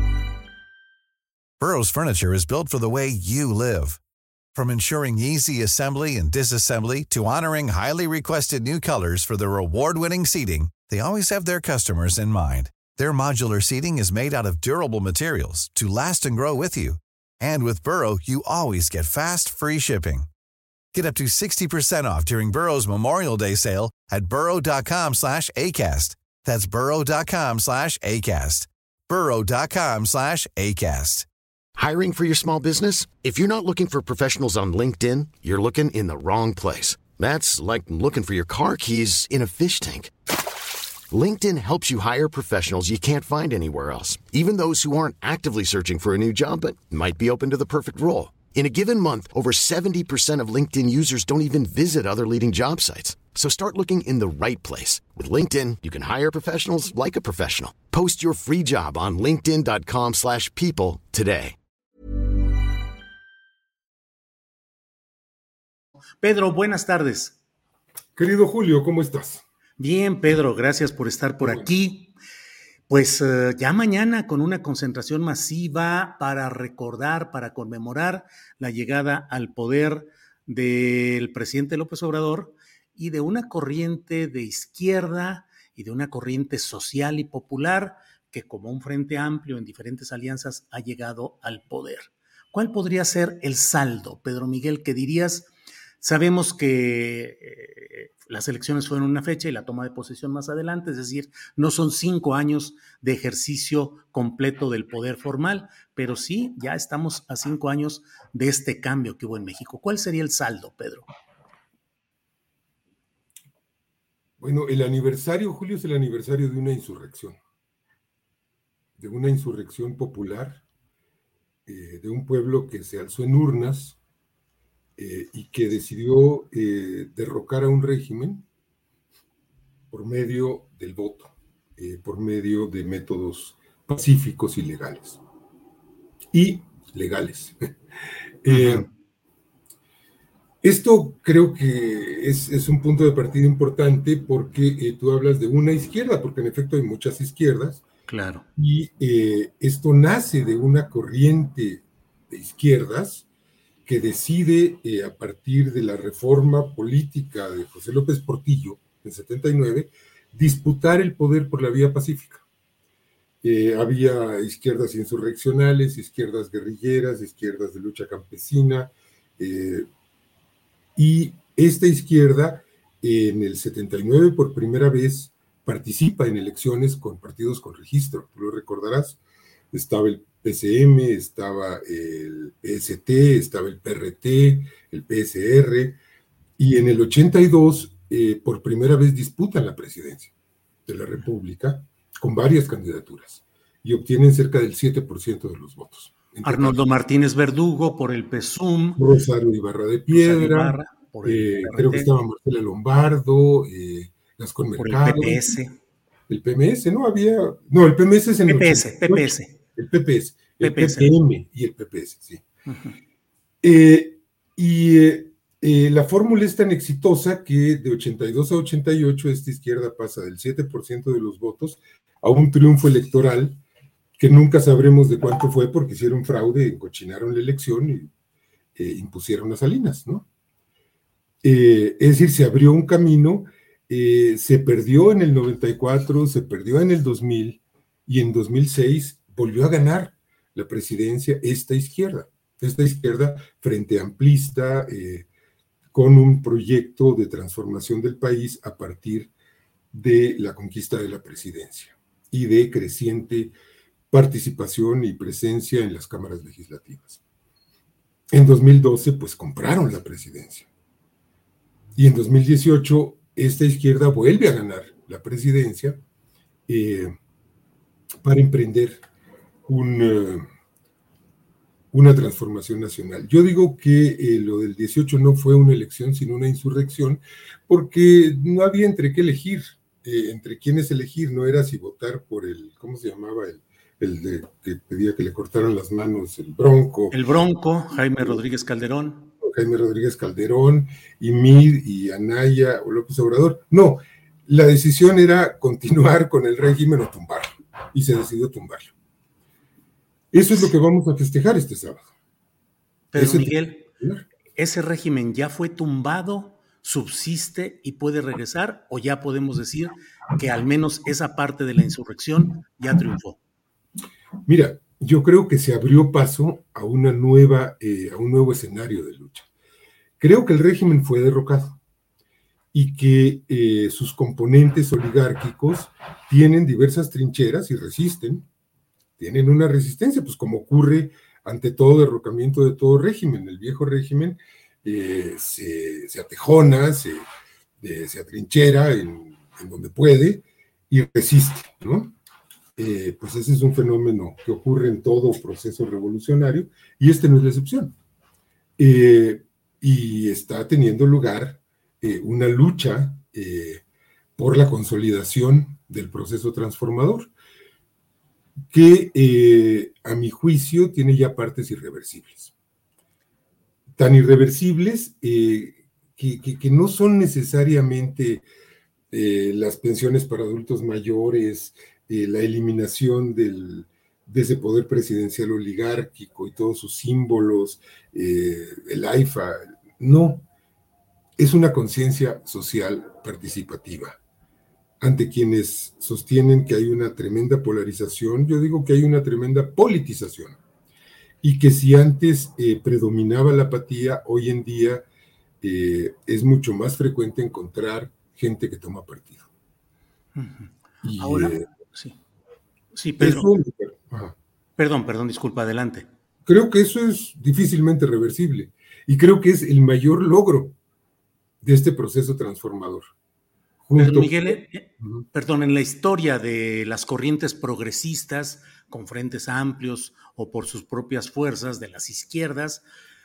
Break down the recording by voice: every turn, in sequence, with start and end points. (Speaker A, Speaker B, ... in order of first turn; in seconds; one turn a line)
Speaker A: 1.6-4.0
Speaker A: 4.5-20.3
Speaker A: 20.9-31.3
Speaker B: 31.8-40.1
Speaker B: 41.1-61.5
Speaker C: 66.2-67.4
Speaker D: 68.2-69.4
Speaker C: 69.8-72.1
Speaker D: 71.4-71.7
Speaker C: 72.9-95.5
Speaker C: 96.0-111.1
Speaker D: 114.4-117.4
Speaker D: 119.0-120.6
Speaker D: 121.7-124.0
Speaker D: 125.0-128.4
Speaker D: 129.9-135.2
Speaker D: 136.3-137.7
Speaker D: 138.4-138.9
Speaker C: 138.5-138.8
Speaker D: 140.6-147.8
Speaker C: 148.1-148.4
Speaker D: 148.6-153.2
Speaker D: 153.8-162.4
Speaker D: 163.4-169.9
Speaker D: 170.9-179.2
Speaker D: 179.7-186.0
Speaker D: 186.6-190.3
Speaker D: 190.9-196.8
Speaker C: 196.4-199.0
Speaker D: 199.0-205.6
Speaker C: 200.1-202.1
Speaker C: 204.8-205.7
Speaker D: 206.3-212.4
Speaker C: 208.5-209.6
Speaker C: 210.6-211.1
Speaker C: 212.7-213.0
Speaker D: 213.6-223.6
Speaker D: 224.2-228.1
Speaker D: 228.8-230.2
Speaker D: 231.4-245.3
Speaker D: 245.9-249.3
Speaker D: 249.9-253.5
Speaker D: 254.1-257.2
Speaker D: 258.3-260.7
Speaker D: 261.9-266.0
Speaker D: 266.7-267.1
Speaker D: 268.2-269.0
Speaker D: 269.6-270.5
Speaker D: 271.9-287.2
Speaker C: 287.1-289.3
Speaker D: 289.4-298.9
Speaker D: 300.3-302.1
Speaker C: 303.1-303.9
Speaker D: 303.1-304.2
Speaker C: 304.6-313.4
Speaker D: 314.5-319.5
Speaker D: 320.2-321.8
Speaker D: 322.7-328.4
Speaker D: 329.2-337.2
Speaker D: 337.8-342.1
Speaker D: 342.8-347.9
Speaker D: 348.8-353.8
Speaker D: 354.4-357.3
Speaker D: 358.7-362.5
Speaker D: 364.0-368.4
Speaker D: 369.1-380.4
Speaker D: 381.4-384.2
Speaker D: 385.0-390.6
Speaker D: 391.4-395.1
Speaker D: 395.6-399.5
Speaker C: 400.4-402.2
Speaker D: 401.0-401.6
Speaker C: 402.9-403.5
Speaker D: 403.2-404.4
Speaker C: 404.8-406.1
Speaker D: 406.4-410.8
Speaker D: 411.6-413.1
Speaker D: 413.8-415.2
Speaker C: 413.9-422.8